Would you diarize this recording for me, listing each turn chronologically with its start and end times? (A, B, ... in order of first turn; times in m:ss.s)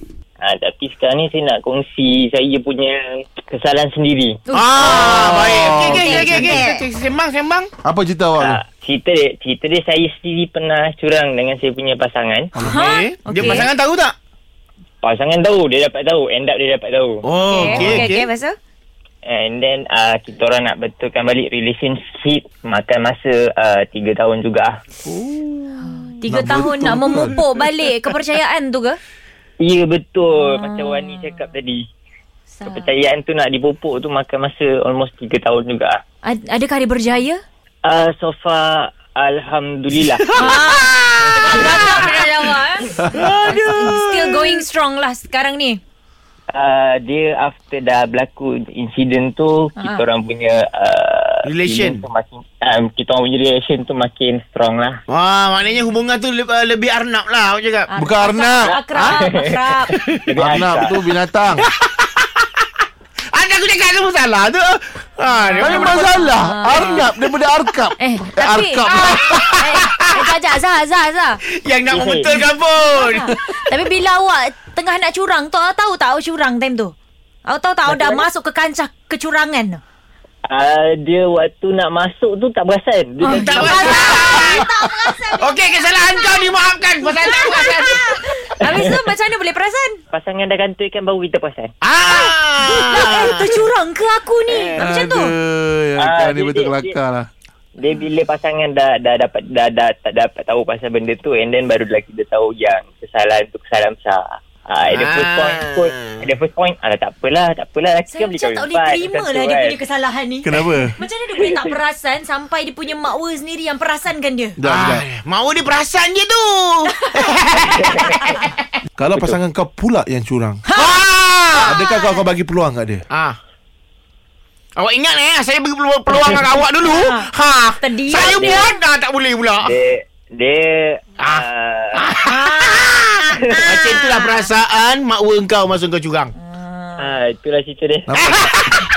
0:00.4-0:04.4 A
0:04.5-0:06.8 B
0:04.5-0:07.7 C
0:04.8-0:06.6 D
0:07.8-0:08.6 D
0:08.4-0:12.5 A
0:12.5-0:12.8 D
0:12.6-0:14.1 C
0:12.6-0:13.7 B
0:15.0-0:17.2 A
0:17.2-0:18.3 C
0:17.5-0:18.6 B
0:17.6-0:18.1 D
0:19.2-0:24.8 A
0:25.0-0:27.4 D
0:25.8-0:29.0 B
0:29.6-0:31.8 A
0:30.3-0:31.4 B
0:32.5-0:32.9 B
0:32.6-0:36.0 A
0:36.2-0:37.4 B
0:37.8-0:42.2 A
0:40.3-0:45.8 B
0:43.0-0:44.5 D
0:46.5-0:55.0 A
0:49.8-0:50.0 B
0:51.4-0:52.0 C
0:55.1-0:57.9 C
0:57.9-1:00.0 B
0:58.0-0:58.7 D
0:58.6-0:59.7 A
0:58.9-0:59.2 C
1:00.2-1:00.9 A
1:00.4-1:01.7 D
1:01.6-1:02.6 C
1:03.3-1:06.1 C
1:05.3-1:07.1 B
1:05.6-1:09.5 D
1:08.0-1:11.4 B
1:08.9-1:10.2 C
1:11.4-1:13.4 C
1:11.9-1:12.4 A
1:12.8-1:16.9 B
1:17.4-1:19.8 B
1:17.9-1:18.2 A
1:20.4-1:24.4 A
1:23.2-1:30.0 B
1:23.2-1:24.7 C
1:25.2-1:28.5 C
1:30.1-1:31.7 A
1:31.8-1:33.6 C
1:32.1-1:35.3 B
1:34.8-1:37.3 D
1:36.0-1:37.0 A
1:37.8-1:49.8 A
1:44.9-1:46.1 C
1:48.1-1:54.6 B
1:50.4-1:51.0 D
1:51.4-1:51.6 A
1:54.6-1:55.0 D
1:54.6-1:58.5 C
1:56.9-1:57.3 B
1:57.7-1:58.3 A
1:59.0-2:00.6 D
1:59.1-1:59.4 A
2:00.6-2:00.9 B
2:00.7-2:01.8 C
2:01.5-2:02.2 B
2:01.6-2:03.0 D
2:03.1-2:03.4 C
2:04.8-2:09.7 C
2:06.1-2:06.4 A
2:06.8-2:08.8 B
2:08.3-2:08.6 A
2:09.6-2:12.1 A
2:11.2-2:11.4 C
2:12.0-2:16.3 C
2:12.2-2:12.8 B
2:13.5-2:14.0 A
2:13.9-2:14.1 B
2:16.4-2:17.2 B
2:17.0-2:18.1 A
2:18.1-2:18.5 D
2:18.2-2:18.9 C